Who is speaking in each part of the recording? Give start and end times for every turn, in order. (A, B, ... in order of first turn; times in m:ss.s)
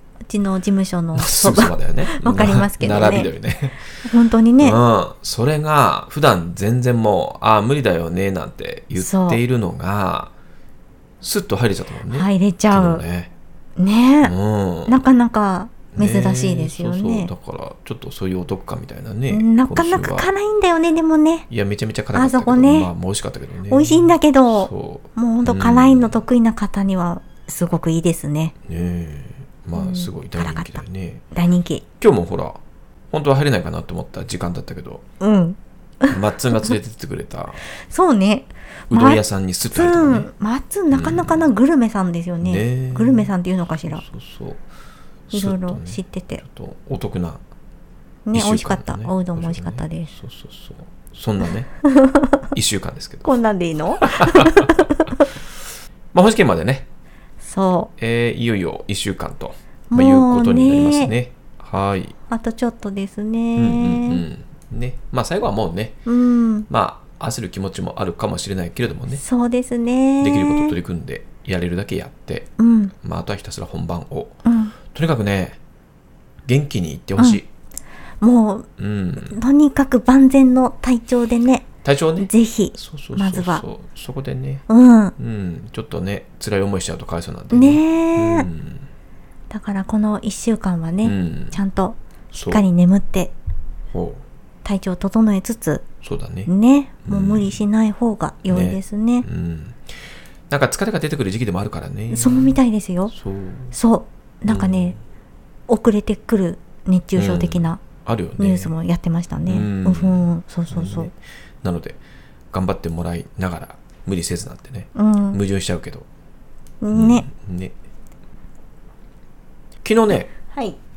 0:00.3-0:03.3 A
0:01.2-0:03.8 B
0:04.0-0:04.8 A
0:04.6-0:10.3 B
0:09.0-0:09.4 A
0:11.2-0:13.3 B
0:12.1-0:13.0 A
0:13.8-0:14.3 A
0:14.2-0:15.0 B
0:14.9-0:17.3 A
0:15.9-0:20.3 B
0:19.3-0:21.5 A
0:21.5-0:26.2 B
0:22.1-0:22.9 A
0:23.7-0:28.5 A
0:28.7-0:31.2 B
0:29.7-0:30.8 A
0:31.3-0:31.8 A
0:32.0-0:32.6 B
0:33.1-0:35.0 B
0:35.2-0:36.7 A
0:36.1-0:37.6 B
0:37.9-0:44.0 A
0:38.9-0:40.3 B
0:40.9-0:41.5 B
0:42.4-0:43.3 B
0:43.9-0:44.6 B
0:45.3-0:47.4 B
0:45.3-0:46.4 A
0:48.2-0:50.1 A
0:48.3-0:51.7 B
0:51.9-0:52.4 A
0:52.5-0:53.3 B
0:53.2-0:55.2 A
0:54.0-0:54.7 B
0:56.1-0:56.9 B
0:57.4-0:57.9 A
0:58.0-1:02.1 B
0:59.9-1:01.1 A
1:02.3-1:04.2 A
1:03.6-1:06.0 B
1:06.0-1:06.7 A
1:06.7-1:09.2 B
1:09.1-1:10.8 A
1:10.2-1:12.5 B
1:12.6-1:12.9 A
1:13.0-1:15.6 B
1:14.4-1:14.7 A
1:16.4-1:17.5 B
1:18.2-1:21.6 A
1:18.8-1:19.4 B
1:21.8-1:24.6 B
1:22.2-1:23.6 A
1:24.7-1:25.1 A
1:25.2-1:28.9 B
1:27.5-1:28.5 A
1:29.5-1:33.3 A
1:31.0-1:31.6 B
1:32.3-1:32.6 B
1:33.9-1:34.2 B
1:34.6-1:35.8 A
1:36.0-1:36.5 B
1:36.4-1:39.3 A
1:37.0-1:37.6 B
1:38.4-1:39.9 B
1:40.5-1:42.6 B
1:42.1-1:43.1 A
1:43.1-1:43.7 B
1:43.7-1:45.0 A
1:44.4-1:45.0 B
1:45.7-1:47.8 A
1:47.2-1:48.7 B
1:48.4-1:51.1 A
1:49.4-1:52.0 B
1:52.5-1:56.1 B
1:54.9-1:55.4 A
1:56.8-1:57.2 A
1:56.9-1:57.7 B
1:59.8-2:00.3 B
2:00.5-2:00.8 A